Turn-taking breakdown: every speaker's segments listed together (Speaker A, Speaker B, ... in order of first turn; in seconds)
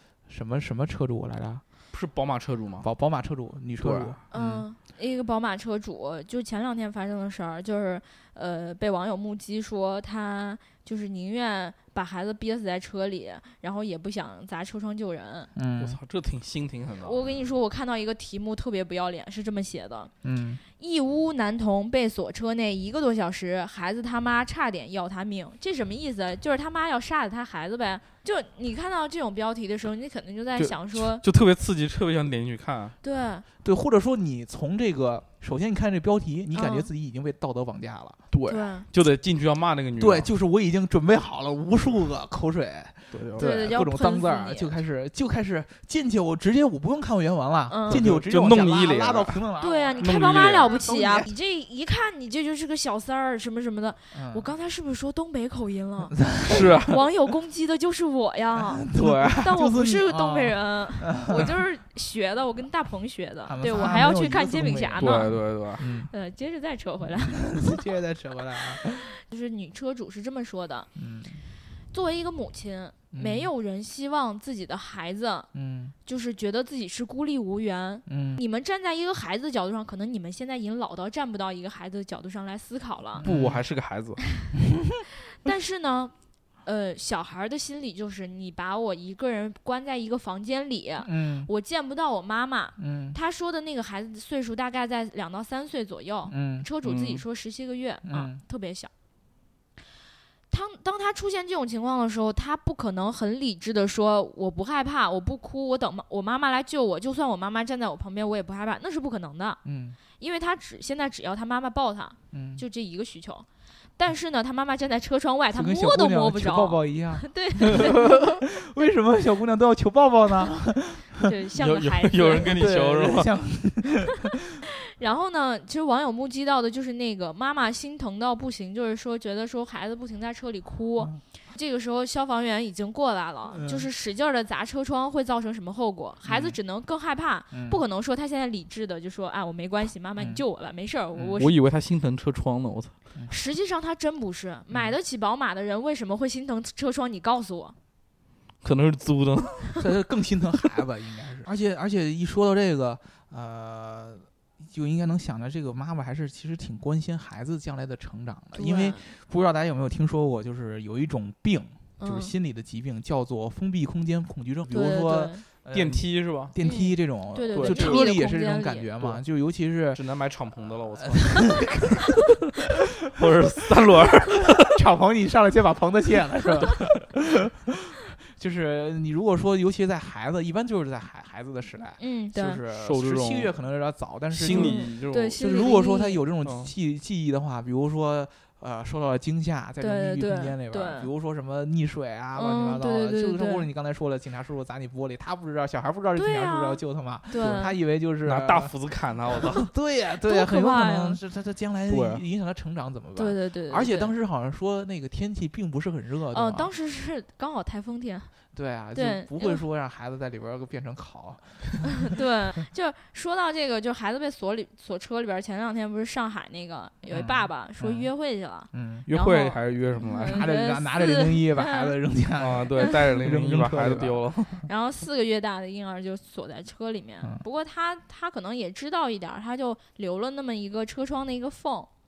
Speaker A: 0.3-1.6, 2.8-4.7, 15.6-16.0, 20.2-20.6, 33.6-38.2, 40.0-51.3, 54.1-54.5, 56.1-56.8, 58.5-61.6, 63.5-65.2, 65.8-66.1, 67.2-69.1, 71.0-71.5, 73.1-73.5, 75.5-76.0, 78.1-78.4, 83.2-83.7, 91.0-91.5, 92.8-93.2, 96.3-96.7, 98.0-98.4, 109.6-110.0, 112.3-112.7, 115.5-121.3, 122.5-124.6, 133.5-133.9, 136.2-136.6, 137.5-137.8, 140.2-140.4, 141.1-141.4, 144.7-145.0, 149.8-170.0, 171.0-172.0, 174.7-177.8, 178.3-198.8, 199.3-206.7, 208.5-212.0, 217.1-218.1, 218.7-219.1, 220.2-224.7
Speaker B: 1.9-2.9, 3.8-4.2, 15.8-17.2, 30.6-33.0, 38.3-40.3, 43.1-43.6, 47.9-49.4, 50.0-50.7, 56.5-57.0, 59.0-59.5, 65.0-65.8, 83.2-84.2, 96.8-97.2, 121.6-123.3, 141.4-142.9, 148.6-149.9, 165.7-166.5, 167.5-168.2, 169.9-171.8, 173.2-174.8, 182.8-183.5, 184.3-185.5, 186.4-186.7, 198.2-199.7, 201.9-202.2, 219.1-220.5, 222.4-224.6
Speaker C: 4.3-15.5, 17.0-20.1, 20.8-31.2, 33.0-33.5, 36.5-36.9, 38.5-38.9, 43.4-44.8, 47.7-48.0, 49.6-58.9, 59.4-67.7, 68.8-70.9, 71.9-75.5, 76.0-83.3, 85.3-98.9, 100.5-109.6, 110.2-118.3, 121.2-122.7, 124.9-141.6, 143.3-147.8, 158.5-159.0, 162.0-162.3, 164.7-165.5, 166.6-168.9, 182.0-182.6, 184.5-186.2, 189.8-191.1, 192.3-193.7, 196.1-197.8, 200.2-201.2, 203.2-204.1, 206.3-208.3, 208.9-209.6, 212.1-221.9, 224.7-231.9